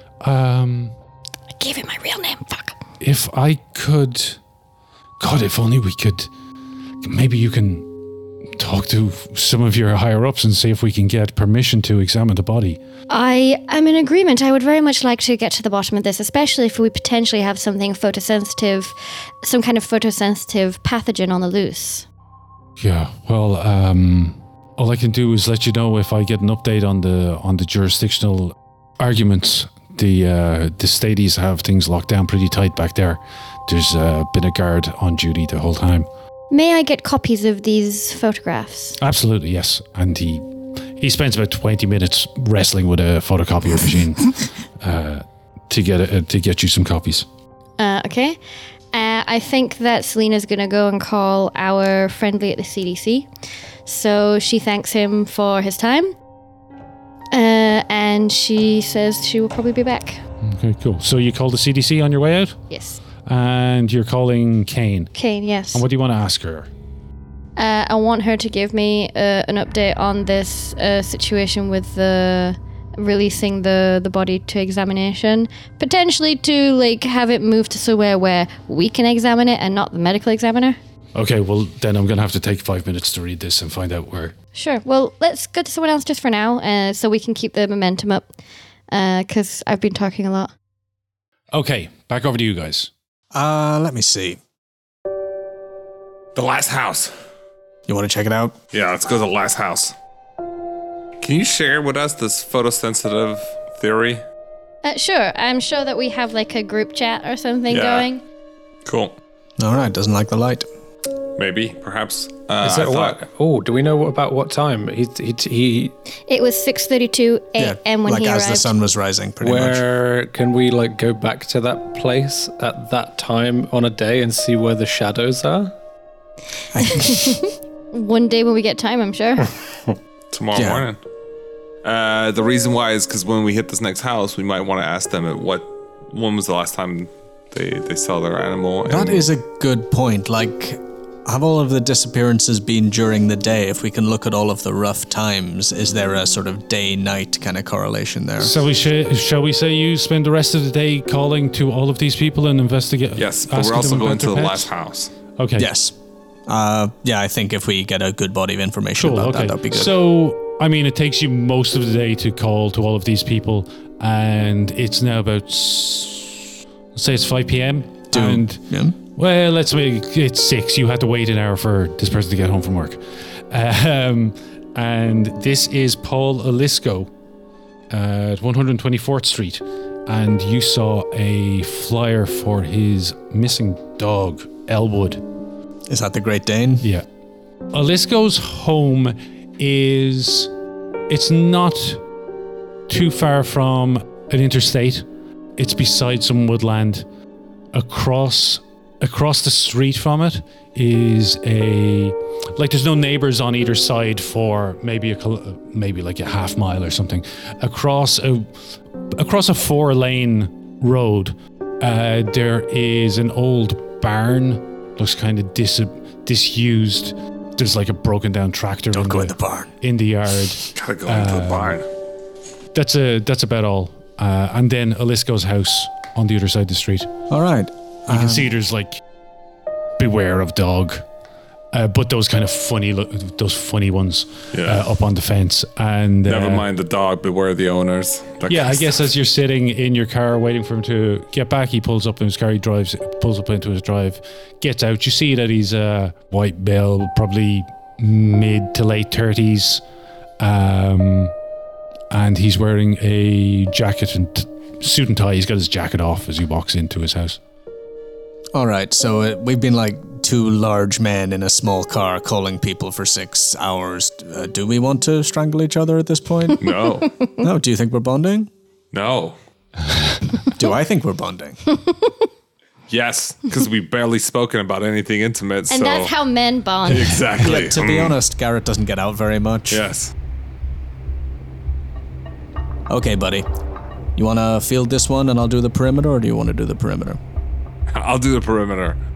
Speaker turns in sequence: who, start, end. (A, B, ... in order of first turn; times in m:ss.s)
0:00.2-0:00.9 A
0:01.6-0:02.8 B
0:03.0-0:04.4 A
0:05.2-0:06.3 A
0:07.0-0:07.9 A
0:08.6-0:12.8 A
0:13.1-0:22.0 B
0:22.8-0:36.1 A
0:36.5-0:39.0 B
0:39.0-0:47.2 A
0:47.8-0:48.4 B
0:48.9-0:53.3 B
0:53.8-0:56.1 B
0:57.3-1:00.2 B
1:00.4-1:02.6 A
1:02.7-1:03.0 B
1:03.2-1:05.1 A
1:05.1-1:05.8 B
1:05.7-1:06.7 A
1:07.6-1:20.8 B
1:21.1-1:24.3 A
1:24.5-1:28.3 B
1:28.9-1:30.5 B
1:31.5-1:32.9 A
1:33.3-1:34.4 C
1:36.3-1:37.1 D
1:37.9-1:38.6 C
1:38.7-1:39.9 D
1:41.2-1:44.2 D
1:44.8-1:48.2 B
1:47.7-1:48.1 D
1:48.8-1:49.2 D
1:49.6-1:50.6 C
1:51.4-1:53.2 D
1:52.6-1:55.9 E
1:56.3-1:58.7 B
1:57.6-1:59.8 C
1:59.4-2:05.7 E
2:06.7-2:07.4 C
2:06.8-2:09.6 B
2:10.3-2:11.0 D
2:10.5-2:10.8 C
2:11.8-2:19.3 D
2:18.9-2:28.6 C
2:28.4-2:34.7 A
2:33.2-2:35.1 D
2:35.4-2:35.7 A
2:35.6-2:35.9 C
2:36.5-2:40.0 C
2:39.0-2:48.6 A
2:48.1-2:48.9 C
2:49.1-2:57.1 A
2:57.9-3:05.2 A
3:05.9-3:06.8 C
3:07.7-3:10.5 A
3:11.1-3:12.0 A
3:12.9-3:15.0 A
3:15.6-3:17.0 A
3:17.7-3:28.5 A
3:29.1-3:41.8 A
3:38.9-3:39.7 C
3:40.7-3:41.8 D
3:42.7-3:47.1 A
3:47.3-3:48.5 C
3:48.1-3:49.0 A
3:50.0-3:51.0 A
3:51.7-3:56.6 A
3:54.5-3:54.8 D
3:56.3-3:58.9 D
3:58.5-4:09.8 A
4:10.4-4:11.3 A
4:12.1-4:17.4 A
4:18.5-4:26.6 C
4:26.6-4:27.1 D
4:27.4-4:28.5 C
4:28.9-4:29.4 D
4:29.9-4:30.2 A
4:30.5-4:31.6 C
4:32.9-4:36.1 D
4:35.7-4:37.2 B
4:36.8-4:38.2 D
4:37.3-4:39.8 C
4:39.7-4:40.1 D
4:42.9-4:43.4 C
4:44.2-4:47.2 C
4:47.9-4:49.0 D